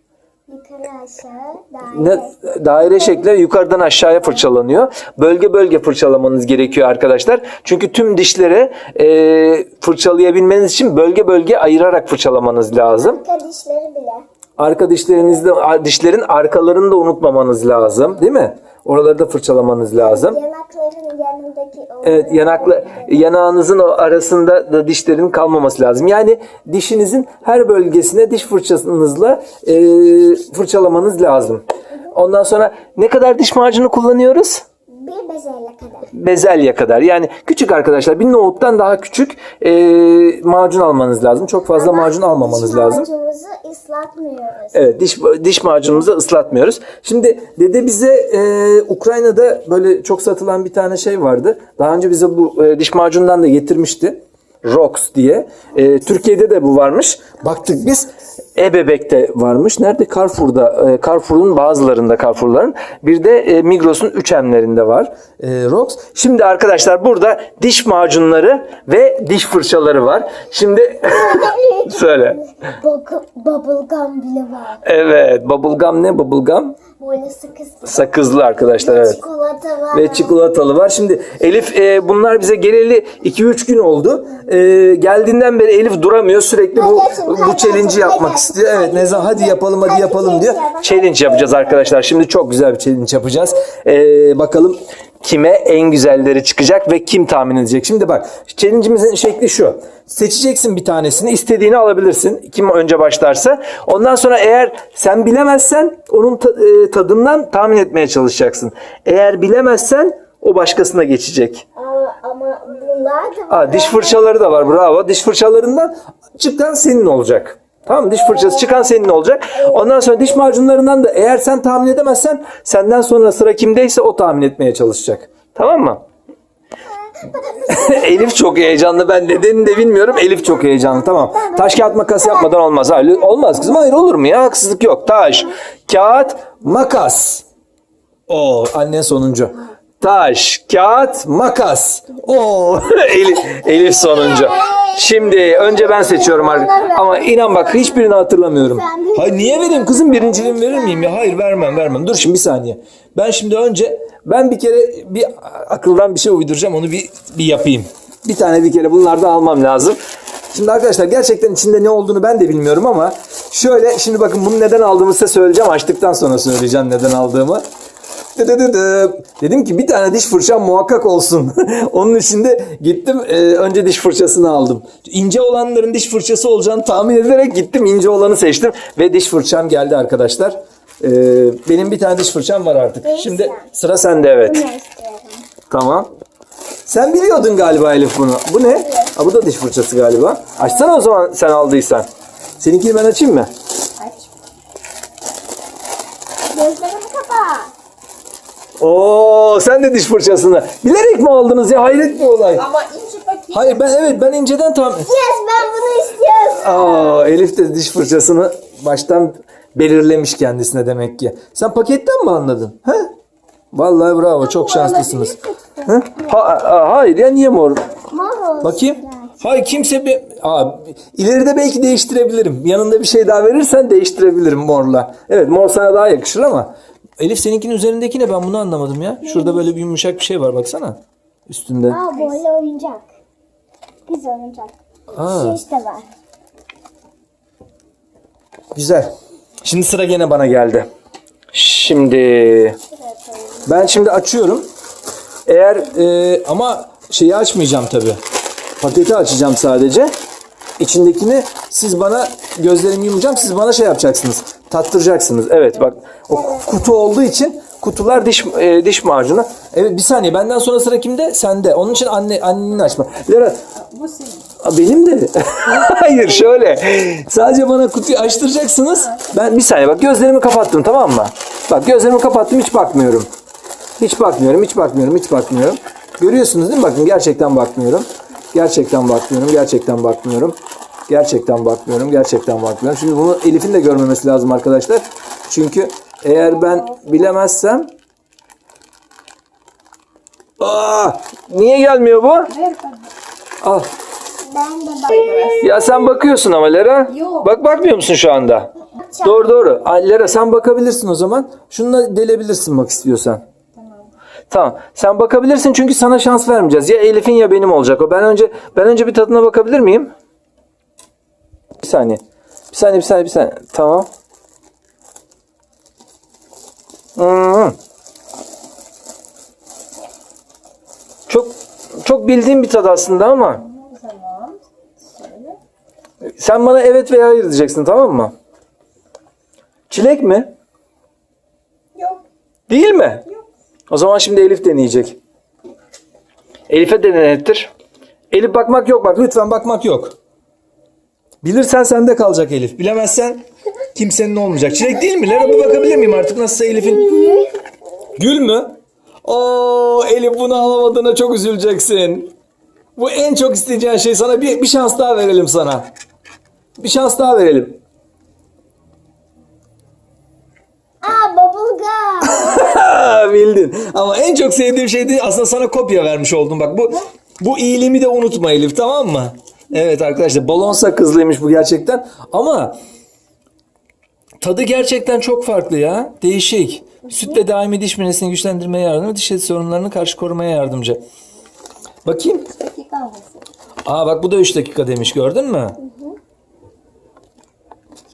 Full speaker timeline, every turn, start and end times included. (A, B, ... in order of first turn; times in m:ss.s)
0:00.5-0:02.4 A
0:01.9-0:13.2 B
0:13.0-0:14.2 A
0:14.6-0:20.4 B
0:20.0-0:23.2 A
0:22.0-0:34.6 B
0:34.9-0:36.1 A
0:36.1-0:43.1 B
0:41.8-0:44.9 A
0:44.7-1:12.4 B
1:11.0-1:14.8 A
1:14.8-1:16.8 B
1:17.0-1:20.4 A
1:17.8-1:19.2 B
1:19.9-1:51.6 B
1:26.8-1:32.0 A
1:51.8-1:54.4 A
1:53.5-2:06.0 B
1:58.1-1:59.0 A
1:59.6-2:00.2 A
2:07.1-2:08.7 A
2:07.7-2:17.4 B
2:09.5-2:13.9 A
2:18.3-2:40.0 B
2:24.1-2:28.0 A
2:28.6-2:31.9 A
2:40.5-2:47.6 B
2:48.4-3:04.6 B
3:03.0-3:05.5 A
3:05.7-3:06.1 B
3:06.9-3:12.1 B
3:08.7-3:09.1 A
3:12.6-3:13.5 B
3:14.0-3:14.3 C
3:16.5-3:17.7 A
3:18.8-3:22.7 B
3:22.5-3:23.9 C
3:23.5-3:25.1 B
3:25.1-3:27.3 A
3:26.6-3:33.1 B
3:33.7-3:35.3 B
3:34.4-3:36.0 C
3:35.9-3:37.8 B
3:38.1-3:39.5 A
3:38.6-3:52.0 B
3:49.3-3:49.6 A
3:51.9-3:53.1 A
3:54.1-3:56.1 A
3:55.1-3:55.6 B
3:58.8-3:59.1 B
3:59.6-4:00.9 B
4:01.5-4:02.8 B
4:02.9-4:03.9 A
4:03.6-4:04.7 B
4:05.5-4:08.2 B
4:08.8-4:10.1 B
4:10.8-4:23.6 B
4:23.8-4:24.5 C
4:24.6-4:33.3 B
4:34.0-4:40.6 B
4:41.1-4:47.9 B
4:46.8-4:47.1 C
4:50.6-4:52.5 B
4:52.5-4:53.1 C
4:53.6-4:53.9 B
4:54.4-4:56.1 A
4:55.0-4:55.8 C
4:55.6-4:58.7 B
4:57.1-4:57.6 C
4:59.0-4:59.5 A
4:59.2-5:03.4 B
5:03.8-5:04.1 C
5:04.5-5:10.1 B
5:11.8-5:12.2 B
5:12.7-5:14.1 B
5:17.2-5:17.8 B
5:21.3-5:23.6 B
5:23.5-5:25.6 C
5:26.4-5:28.3 B
5:29.9-5:30.5 B
5:32.0-5:32.2 C
5:32.7-5:33.2 B
5:33.9-5:35.2 B
5:36.7-5:37.7 B
5:38.3-5:40.2 B
5:41.4-5:43.4 B
5:44.0-5:47.4 B
5:45.0-5:47.5 A
5:48.2-5:52.3 B
5:53.0-5:55.9 B
5:56.8-5:57.8 B
6:01.0-6:02.7 A
6:02.2-6:12.8 B
6:14.4-6:21.0 B
6:22.0-6:22.5 B
6:22.3-6:23.5 C
6:23.9-6:25.8 B
6:25.8-6:26.2 A